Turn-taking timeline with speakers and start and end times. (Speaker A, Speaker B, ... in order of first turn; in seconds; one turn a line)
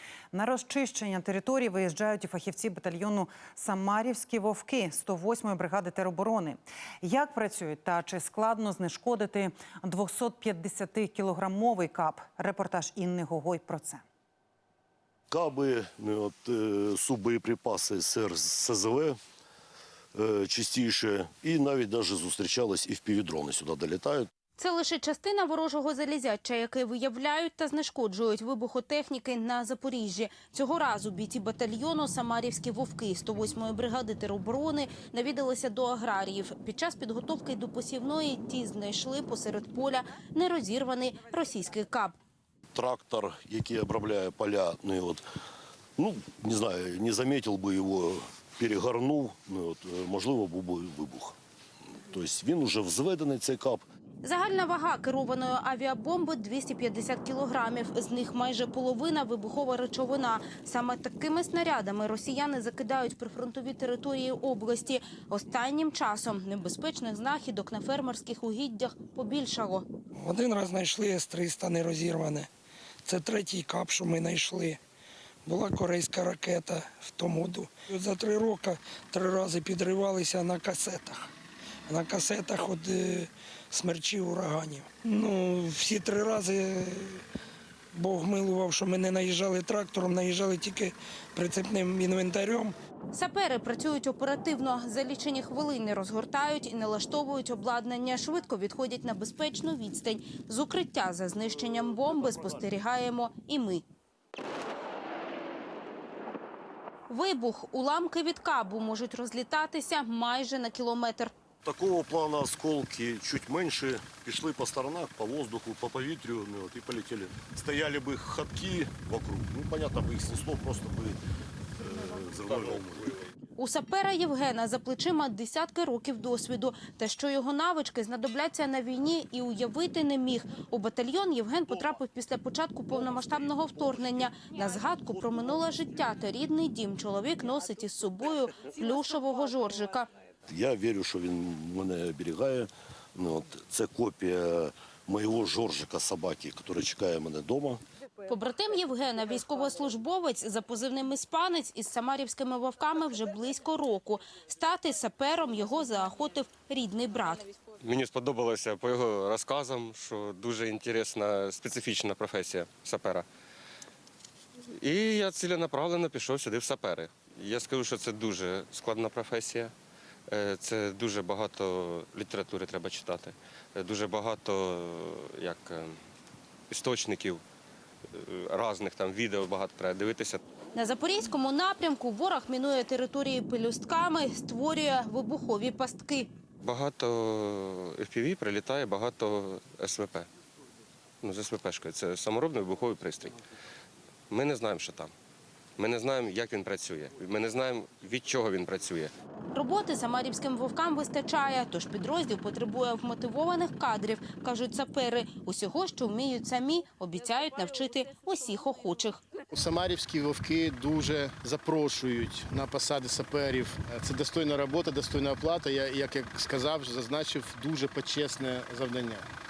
Speaker A: 0.3-14.0
Speaker B: 15.3-19.2
Speaker B: 20.1-24.3
Speaker C: 24.6-42.2
Speaker B: 42.7-45.2
Speaker B: 46.0-51.4
Speaker B: 52.1-53.8
Speaker C: 54.2-69.9
Speaker D: 70.2-72.5
Speaker D: 73.0-74.8
Speaker D: 75.5-81.3
Speaker D: 81.9-87.2
Speaker D: 87.9-92.8
Speaker C: 93.1-103.8
Speaker B: 102.0-102.4
Speaker C: 107.1-111.3
Speaker B: 111.6-121.2
Speaker B: 121.8-123.2
Speaker C: 123.6-140.1
Speaker B: 140.5-147.8
Speaker C: 148.2-157.6
Speaker E: 157.8-163.3
Speaker E: 164.7-169.7
Speaker E: 170.3-176.0
Speaker E: 176.7-177.4
Speaker E: 178.1-180.4
Speaker C: 180.8-186.3
Speaker E: 186.6-190.3
Speaker E: 191.2-193.4
Speaker E: 194.3-195.1
Speaker E: 195.8-199.1
Speaker C: 199.5-209.3
Speaker F: 209.6-219.3